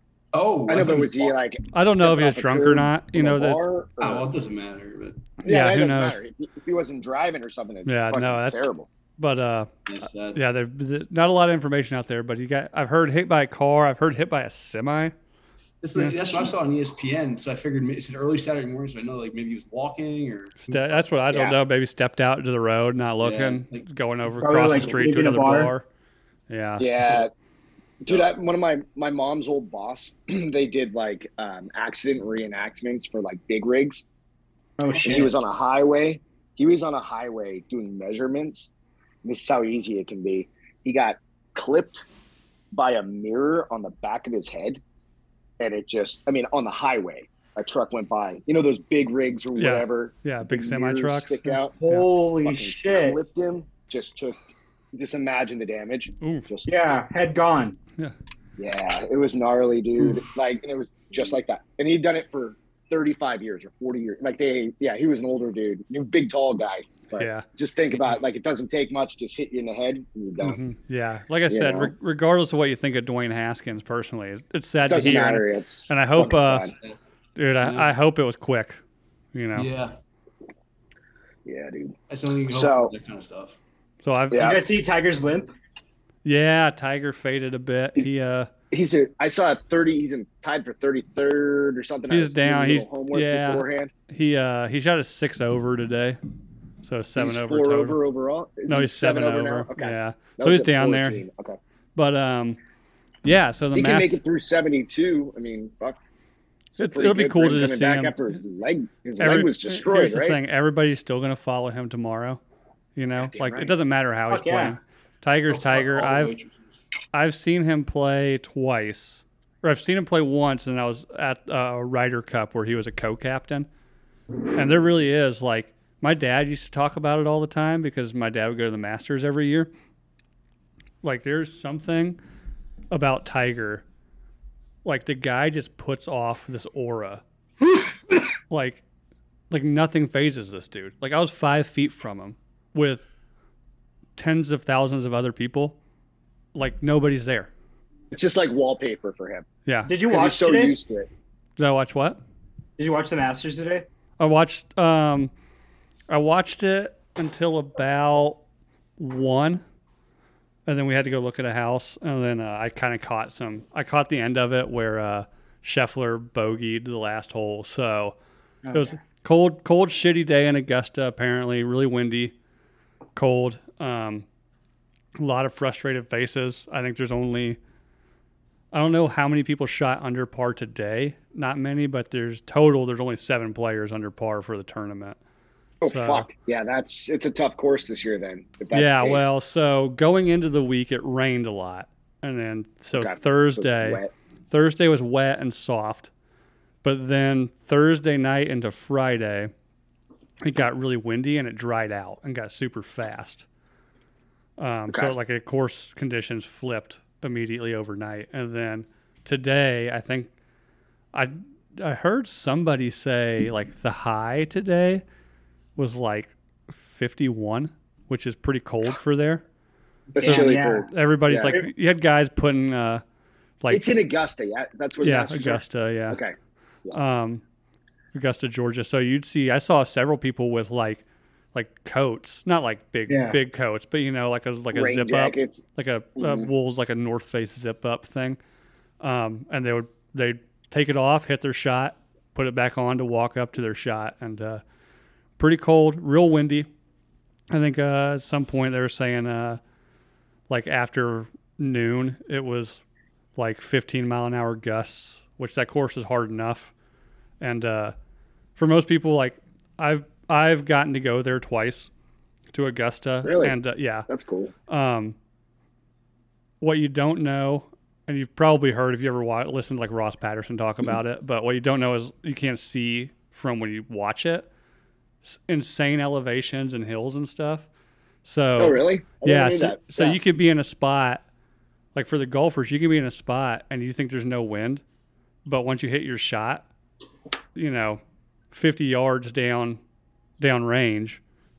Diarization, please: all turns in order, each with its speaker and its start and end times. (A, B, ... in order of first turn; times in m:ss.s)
0:00.3-0:01.3 A
0:00.7-0:04.3 B
0:01.7-0:03.6 C
0:04.0-0:05.2 A
0:05.4-0:06.2 C
0:05.4-0:08.9 B
0:07.8-0:09.7 C
0:09.8-0:10.4 A
0:10.3-0:15.1 C
0:15.8-0:21.0 A
0:15.9-0:16.6 C
0:20.6-0:25.9 C
0:21.3-0:21.6 B
0:23.2-0:23.8 A
0:24.3-0:25.7 D
0:24.6-0:25.1 A
0:26.5-0:27.0 C
0:26.8-0:27.3 B
0:28.0-0:34.0 B
0:34.8-0:35.3 D
0:35.0-0:38.7 B
0:39.2-0:42.0 B
0:42.7-0:44.8 B
0:45.6-0:51.8 B
0:49.6-0:52.1 C
0:51.8-0:53.2 D
0:52.4-0:54.4 B
0:54.9-0:56.7 B
0:56.2-0:56.5 C
0:56.7-0:57.8 D
0:58.6-1:10.6 B
1:07.2-1:07.4 C
1:10.4-1:16.7 C
1:11.5-1:11.9 B
1:14.9-1:16.7 B
1:17.4-1:18.8 C
1:17.6-1:17.9 A
1:19.3-1:19.7 C
1:19.5-1:20.0 A
1:21.4-1:22.0 B
1:22.1-1:23.6 A
1:22.5-1:22.9 B
1:24.0-1:24.6 C
1:24.3-1:24.6 B
1:24.3-1:25.5 D
1:26.2-1:28.5 C
1:28.7-1:33.9 B
1:32.1-1:36.2 C
1:36.8-1:38.0 C
1:37.2-1:41.6 B
1:38.7-1:41.2 C
1:42.0-1:42.6 C
1:43.2-1:44.2 C
1:43.7-1:46.0 B
1:46.7-1:50.4 B
1:46.8-1:48.2 C
1:49.2-1:52.4 C
1:53.0-1:56.4 C
1:53.2-1:53.7 B
1:54.3-1:54.8 D
1:55.5-1:56.8 A
1:57.1-2:03.7 C
2:04.5-2:09.7 C
2:11.0-2:12.2 C
2:12.9-2:13.8 C
2:14.8-2:17.2 C
2:18.5-2:18.8 C
2:19.5-2:23.0 C
2:24.2-2:25.8 C
2:26.5-2:27.5 C
2:28.1-2:29.4 B
2:29.6-2:29.9 C
2:29.9-2:30.8 D
2:30.1-2:31.1 B
2:31.6-2:32.2 C
2:32.8-2:33.8 D
2:34.2-2:35.3 C
2:36.1-2:38.4 C
2:39.0-2:39.6 C
2:40.6-2:48.2 C
2:48.6-2:48.9 D
2:48.7-2:52.3 C
2:53.2-2:54.2 C
2:55.2-2:57.6 C
2:58.7-3:05.2 C
3:05.8-3:09.3 B
3:05.8-3:06.3 C
3:08.7-3:16.1 C
3:12.9-3:14.1 B
3:16.8-3:19.5 C
3:20.4-3:23.4 C
3:24.6-3:30.3 C
3:24.9-3:25.1 B
3:31.1-3:35.0 C
3:35.8-3:39.4 C
3:40.1-3:40.9 D
3:40.1-3:41.6 B
3:40.2-3:43.0 C
3:43.6-3:44.0 C
3:43.7-3:47.0 B
3:45.0-3:46.2 C
3:46.9-3:47.4 C
3:48.1-3:58.4 C
3:53.1-3:53.4 D
3:54.7-3:55.6 B
3:56.2-3:56.5 B
3:59.0-4:04.6 C
4:05.4-4:06.7 C
4:07.5-4:09.6 C
4:10.5-4:12.8 C
4:13.4-4:16.7 C
4:17.4-4:17.9 C
4:18.6-4:21.9 C
4:22.5-4:24.1 C
4:23.2-4:24.5 B
4:24.7-4:25.2 C
4:26.6-4:34.5 C
4:35.2-4:37.7 C
4:38.2-4:41.2 C
4:38.6-4:40.2 B
4:41.9-4:44.8 C
4:45.4-4:46.7 C
4:47.5-4:49.8 C
4:50.4-4:51.2 C